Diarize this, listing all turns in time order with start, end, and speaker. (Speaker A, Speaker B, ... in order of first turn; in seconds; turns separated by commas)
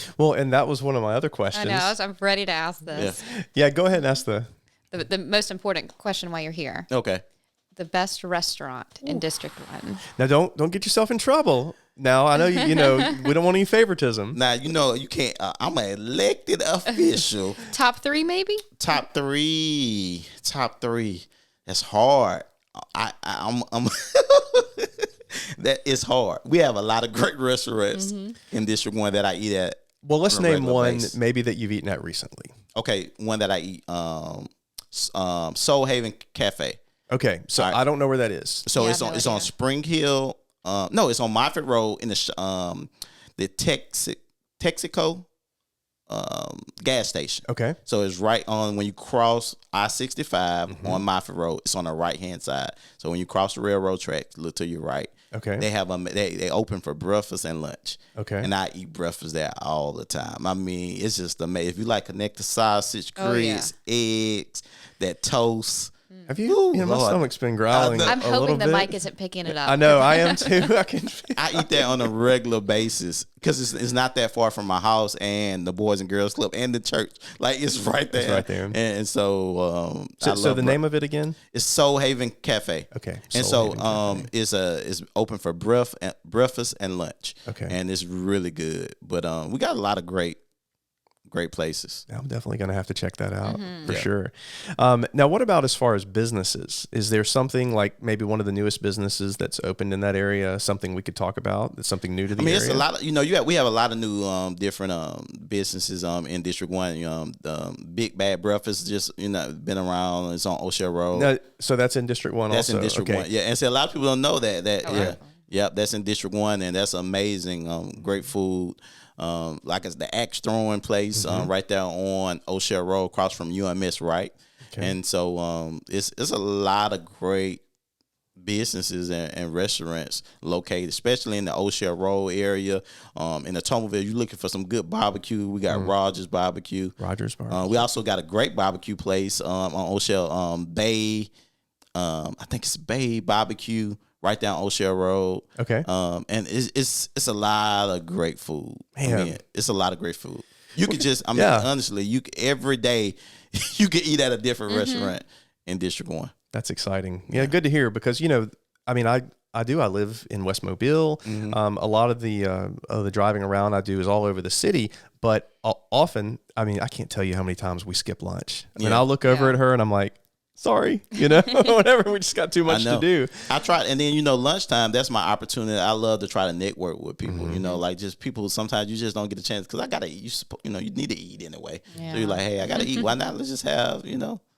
Speaker A: 0.1-1.9, Speaker B: 1.5-3.2, Speaker A: 3.2-4.5, Speaker B: 4.9-6.9, Speaker C: 6.9-7.2, Speaker B: 7.8-10.0, Speaker A: 10.2-14.4, Speaker B: 12.6-12.9, Speaker C: 14.3-17.7, Speaker B: 17.6-18.6, Speaker C: 18.8-31.2, Speaker B: 27.9-28.4, Speaker A: 30.0-32.5, Speaker C: 32.7-36.8, Speaker A: 37.1-38.6, Speaker C: 38.6-45.2, Speaker B: 38.7-39.5, Speaker C: 46.1-65.9, Speaker A: 47.5-47.8, Speaker A: 50.7-51.0, Speaker A: 55.3-55.6, Speaker A: 58.1-58.5, Speaker B: 63.2-63.7, Speaker A: 66.3-68.3, Speaker C: 66.4-68.8, Speaker B: 68.0-70.7, Speaker A: 69.5-72.1, Speaker C: 71.4-80.8, Speaker A: 78.1-78.8, Speaker A: 80.2-81.3, Speaker C: 81.5-90.4, Speaker A: 82.9-84.3, Speaker A: 87.5-87.8, Speaker C: 91.3-92.0, Speaker A: 92.1-102.8, Speaker B: 93.4-93.9, Speaker C: 102.3-111.3, Speaker A: 111.1-113.3, Speaker C: 112.5-127.6, Speaker B: 114.8-115.3, Speaker A: 114.9-115.2, Speaker A: 121.2-121.5, Speaker C: 128.4-137.0, Speaker A: 137.0-137.8, Speaker C: 137.5-141.3, Speaker C: 141.9-156.3, Speaker A: 145.6-145.9, Speaker A: 149.0-149.3, Speaker A: 151.3-151.7, Speaker B: 154.7-155.1, Speaker A: 156.5-173.5, Speaker C: 157.3-157.6, Speaker C: 161.2-161.6, Speaker C: 168.8-169.0, Speaker B: 169.3-169.6, Speaker C: 172.7-184.4, Speaker A: 177.2-177.6, Speaker B: 181.9-182.4